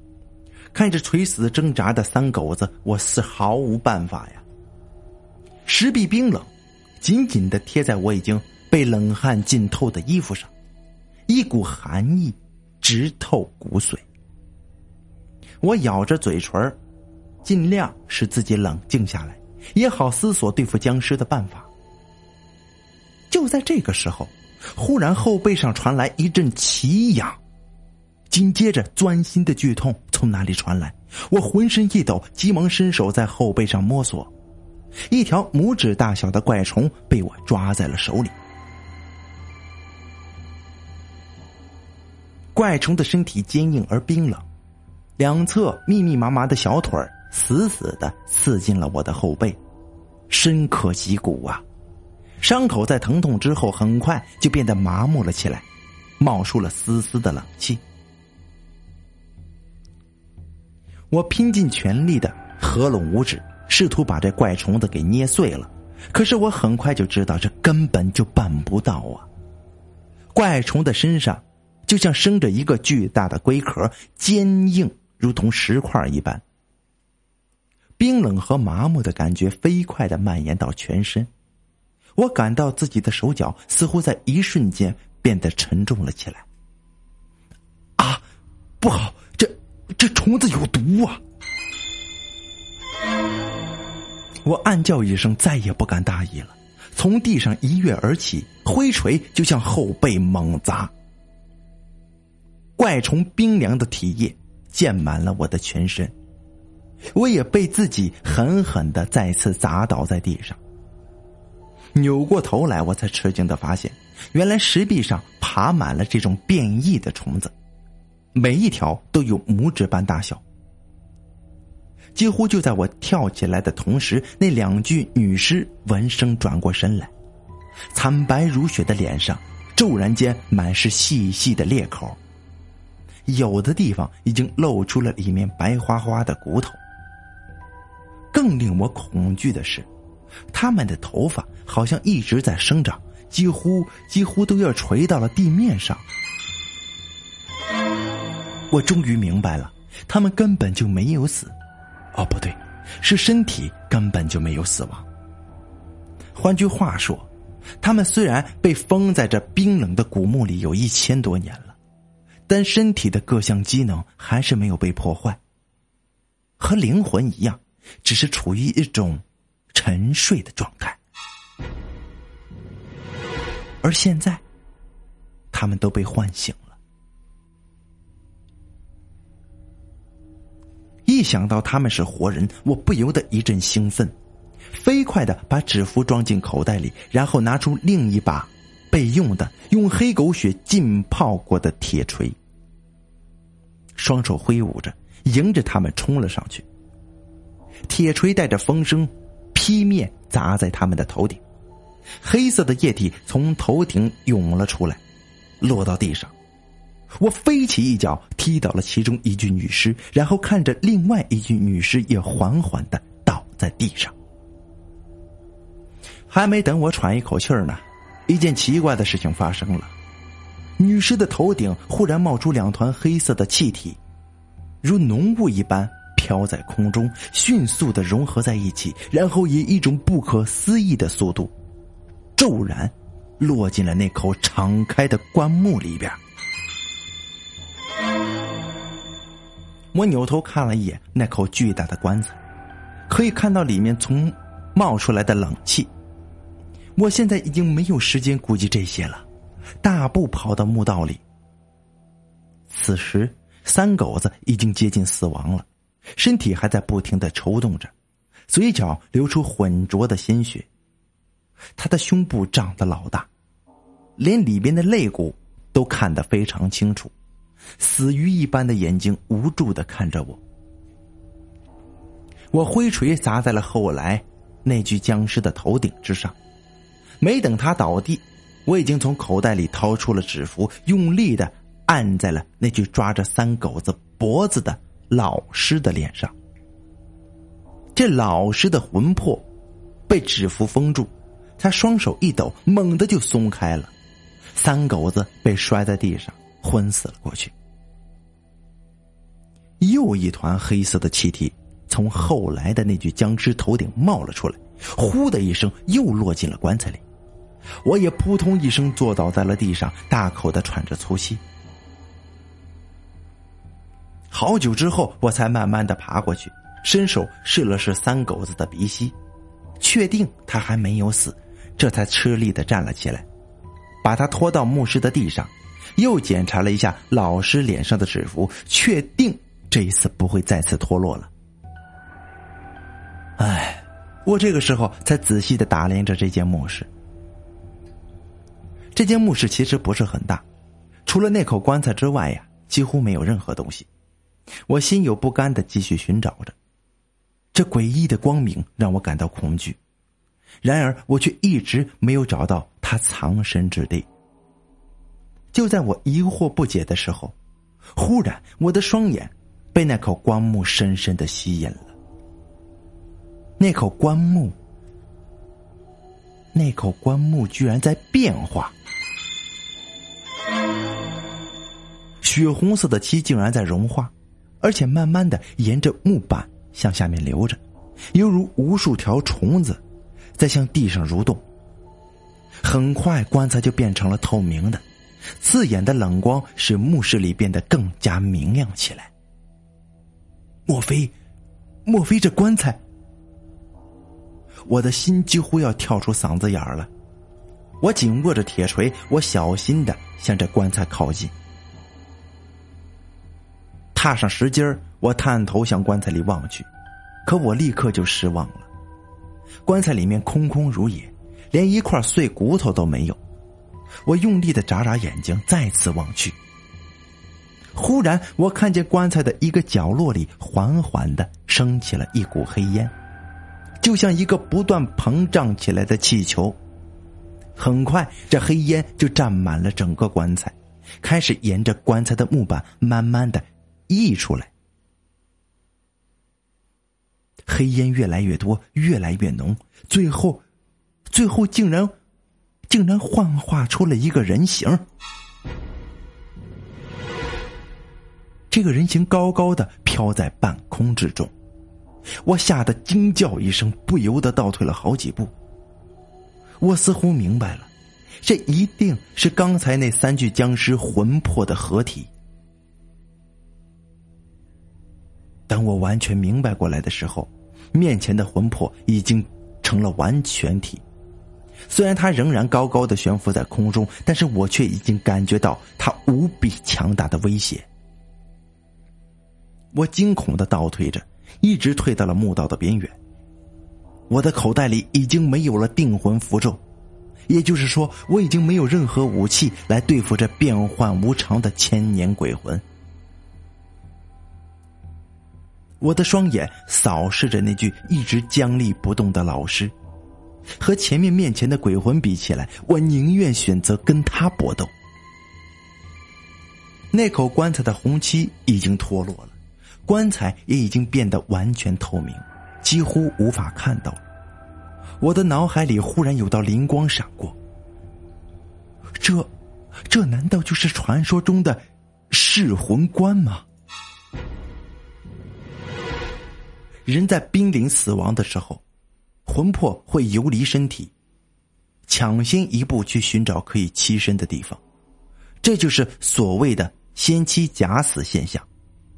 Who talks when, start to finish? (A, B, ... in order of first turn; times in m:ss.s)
0:00.7-0:04.4 A
0:05.6-0:06.5 A
0:07.0-0:10.5 A
0:11.3-0:14.0 A
0:15.6-0:16.8 A
0:17.4-0:21.7 A
0:23.3-0:27.4 A
0:28.3-0:34.3 A
0:35.1-0:38.3 A
0:42.5-0:44.5 A
0:45.2-0:49.6 A
0:50.3-0:51.6 A
0:52.4-0:55.6 A
0:56.2-0:57.8 A
1:01.1-1:09.3 A
1:10.3-1:16.4 A
1:18.0-1:21.3 A
1:22.2-1:26.4 A
1:28.0-1:28.2 A
1:28.8-1:31.2 A
1:34.4-1:40.9 A
1:42.8-1:46.1 A
1:47.1-1:50.6 A
1:51.9-1:57.5 A
1:58.3-2:00.4 A
2:02.2-2:07.1 A
2:07.9-2:12.2 A
2:13.3-2:16.8 A
2:18.3-2:19.9 A
2:20.5-2:26.0 A
2:28.7-2:31.5 A
2:32.1-2:35.0 A
2:36.4-2:37.3 A
2:37.8-2:41.8 A
2:42.5-2:45.4 A
2:46.6-2:51.0 A
2:53.8-2:54.4 A
2:55.5-2:56.8 A
3:01.0-3:04.1 A
3:04.7-3:12.4 A
3:14.0-3:16.6 A
3:17.9-3:21.4 A
3:22.2-3:25.0 A
3:25.6-3:26.3 A
3:27.1-3:34.1 A
3:36.3-3:39.9 A
3:40.8-3:44.0 A
3:44.8-3:51.5 A
3:52.4-3:56.2 A
3:59.9-4:02.4 A
4:03.1-4:05.9 A
4:07.0-4:09.2 A
4:09.8-4:11.2 A
4:12.7-4:17.9 A
4:18.5-4:20.7 A
4:21.8-4:23.3 A
4:24.2-4:27.1 A
4:27.8-4:30.4 A
4:32.5-4:36.4 A
4:37.2-4:46.3 A
4:47.9-4:49.5 A
4:50.1-4:53.9 A
4:54.5-4:57.5 A
4:59.8-5:07.0 A
5:07.8-5:11.4 A
5:14.3-5:19.2 A
5:19.8-5:23.2 A
5:24.0-5:31.3 A
5:33.4-5:36.9 A
5:39.0-5:40.4 A
5:41.0-5:43.9 A
5:44.7-5:46.5 A
5:47.5-5:49.8 A
5:50.6-5:54.1 A
5:55.5-5:57.4 A
5:58.0-6:02.0 A
6:03.6-6:04.6 A
6:06.5-6:08.7 A
6:12.2-6:17.6 A
6:18.1-6:19.8 A
6:20.4-6:21.4 A
6:22.6-6:24.8 A
6:25.4-6:29.1 A
6:30.7-6:31.1 A
6:31.8-6:32.8 A
6:34.7-6:36.9 A
6:37.8-6:41.3 A
6:44.0-6:46.7 A
6:47.2-6:48.7 A
6:49.6-6:53.2 A
6:54.0-6:56.4 A
6:57.8-7:02.9 A
7:03.8-7:06.6 A
7:07.6-7:14.5 A
7:17.5-7:20.4 A
7:21.1-7:21.9 A
7:22.7-7:24.8 A
7:28.5-7:31.3 A
7:32.2-7:35.3 A
7:36.6-7:37.7 A
7:38.2-7:42.1 A
7:45.5-7:50.8 A
7:51.7-7:57.7 A
7:59.7-8:03.0 A
8:04.1-8:06.6 A
8:07.3-8:12.6 A
8:15.8-8:19.7 A
8:20.6-8:24.7 A
8:26.9-8:34.0 A
8:35.0-8:37.4 A
8:39.0-8:39.3 A
8:39.9-8:43.4 A
8:46.8-8:48.6 A
8:49.2-8:50.9 A
8:51.9-8:54.6 A
8:55.4-8:58.5 A